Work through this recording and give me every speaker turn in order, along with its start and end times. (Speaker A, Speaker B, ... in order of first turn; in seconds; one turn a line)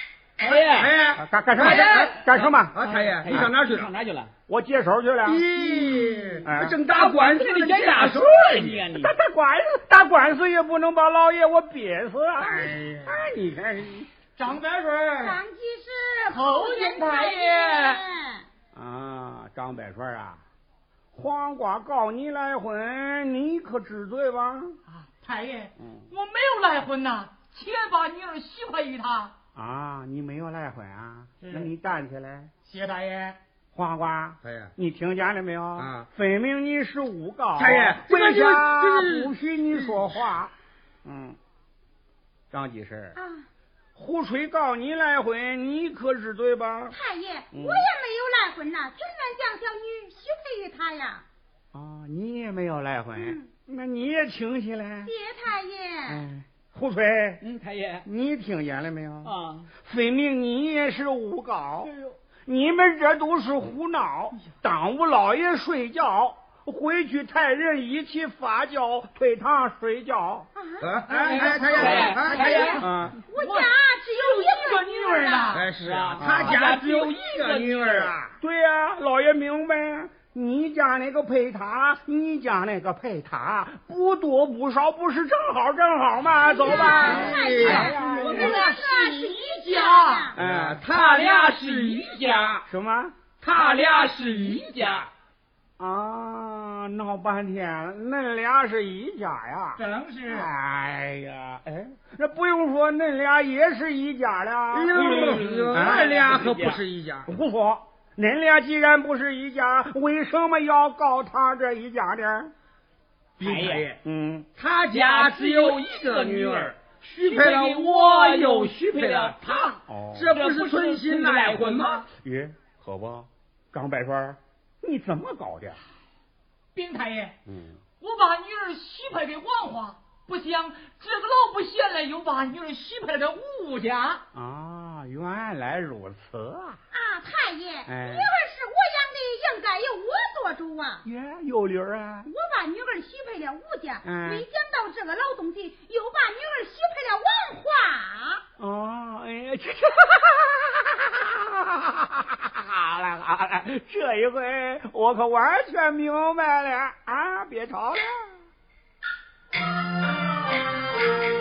Speaker A: 0.4-0.9
Speaker B: 0.5-2.1
Speaker C: 1.2-2.8
Speaker A: 1.6-4.3
Speaker B: 2.7-3.9
Speaker C: 4.5-5.5
Speaker B: 5.2-8.9
Speaker C: 6.4-6.8
Speaker A: 6.9-9.1
Speaker C: 8.9-14.1
Speaker B: 12.4-13.2
Speaker D: 14.4-15.4
Speaker E: 15.2-18.5
Speaker D: 16.3-18.0
Speaker C: 18.7-20.4
Speaker C: 21.1-24.8
Speaker D: 25.0-29.3
Speaker C: 25.8-26.1
Speaker C: 29.6-32.5
Speaker D: 31.4-31.7
Speaker D: 32.6-33.4
Speaker C: 33.7-40.5
Speaker B: 34.4-34.7
Speaker B: 35.8-36.1
Speaker B: 37.6-40.0
Speaker C: 41.0-41.4
Speaker C: 42.5-43.2
Speaker E: 43.2-43.5
Speaker C: 44.0-47.0
Speaker E: 46.9-51.2
Speaker C: 47.5-47.9
Speaker C: 51.7-55.1
Speaker E: 53.2-53.5
Speaker E: 55.0-56.2
Speaker C: 56.1-57.4
Speaker A: 57.4-58.1
Speaker C: 58.0-61.9
Speaker A: 59.2-59.7
Speaker A: 61.9-62.1
Speaker C: 62.5-70.5
Speaker E: 70.6-75.6
Speaker B: 70.8-72.8
Speaker D: 71.1-75.7
Speaker A: 71.1-72.9
Speaker C: 72.8-73.2
Speaker B: 75.5-78.3
Speaker A: 75.7-78.1
Speaker C: 76.2-76.6
Speaker C: 78.4-88.6
Speaker E: 86.4-90.4
Speaker B: 86.7-88.0
Speaker D: 87.3-90.3
Speaker C: 90.3-90.8
Speaker B: 90.4-92.6
Speaker A: 90.8-92.6
Speaker C: 92.7-93.2
Speaker B: 93.4-95.1
Speaker A: 93.5-95.1
Speaker C: 95.8-106.2
Speaker D: 99.8-100.5
Speaker B: 104.7-107.3
Speaker A: 104.9-106.8
Speaker C: 107.3-112.5
Speaker B: 113.4-114.0
Speaker A: 113.4-113.9
Speaker C: 114.0-114.5
Speaker B: 114.6-122.1
Speaker A: 114.9-122.1
Speaker C: 119.9-120.3
Speaker C: 122.2-125.8
Speaker D: 126.7-127.3
Speaker C: 127.5-127.8
Speaker D: 128.0-134.2
Speaker C: 134.3-136.8
Speaker E: 136.9-141.1
Speaker C: 137.9-138.3
Speaker C: 141.1-142.3
Speaker E: 142.3-148.4
Speaker C: 144.0-144.5
Speaker C: 148.6-158.4